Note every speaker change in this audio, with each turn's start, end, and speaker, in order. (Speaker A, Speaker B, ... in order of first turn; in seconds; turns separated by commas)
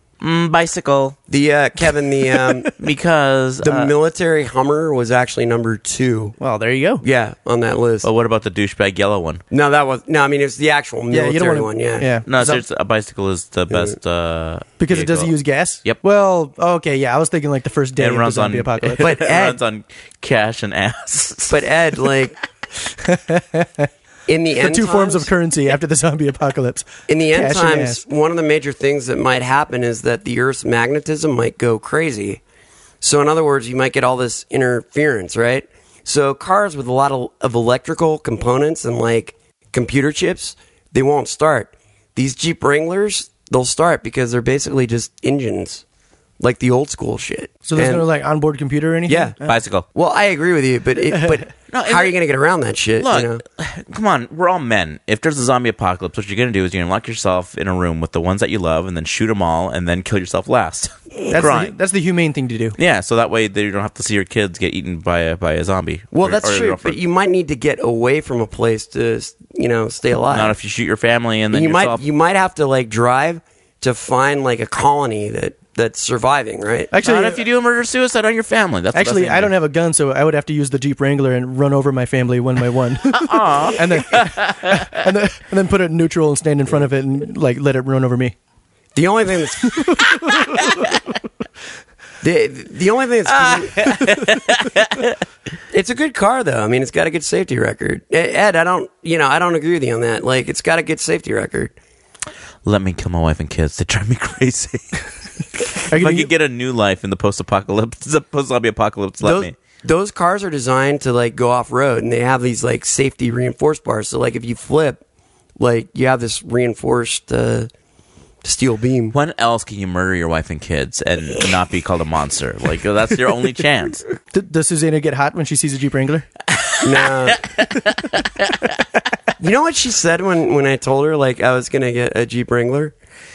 Speaker A: 0.2-1.2, Speaker B: 1.3-2.7, Speaker A: 2.7-3.9, Speaker B: 3.6-6.3, Speaker C: 6.4-7.0, Speaker B: 7.0-8.1, Speaker A: 8.0-9.4, Speaker B: 9.5-12.1, Speaker C: 11.1-12.6, Speaker A: 12.3-15.3, Speaker B: 13.7-13.9, Speaker C: 14.8-19.2, Speaker A: 18.0-21.6, Speaker B: 19.0-19.6, Speaker B: 21.5-22.4, Speaker C: 23.0-23.9, Speaker B: 24.3-25.3, Speaker C: 24.6-28.0, Speaker B: 27.1-32.4, Speaker B: 33.0-45.8, Speaker B: 46.4-48.0, Speaker C: 47.6-49.5, Speaker B: 49.1-49.4, Speaker A: 49.5-49.9, Speaker B: 49.9-53.4, Speaker C: 51.1-51.4, Speaker A: 51.7-52.1, Speaker A: 53.0-61.7, Speaker C: 61.3-62.8, Speaker A: 62.8-67.0, Speaker B: 66.1-70.5, Speaker A: 70.3-72.0, Speaker B: 71.5-76.9, Speaker C: 76.9-77.4, Speaker A: 77.0-79.5, Speaker C: 78.9-88.3, Speaker A: 83.1-85.0, Speaker B: 88.9-90.0, Speaker C: 89.7-90.5, Speaker A: 90.4-90.9, Speaker B: 92.2-93.9, Speaker A: 93.3-95.2, Speaker B: 95.7-101.7, Speaker A: 102.6-105.0, Speaker A: 105.5-109.5, Speaker C: 105.9-106.3, Speaker B: 109.2-115.0, Speaker B: 115.6-117.7, Speaker B: 118.4-119.1, Speaker A: 119.1-124.0, Speaker C: 124.3-126.3, Speaker A: 126.5-128.8, Speaker B: 126.8-127.4, Speaker B: 129.4-132.9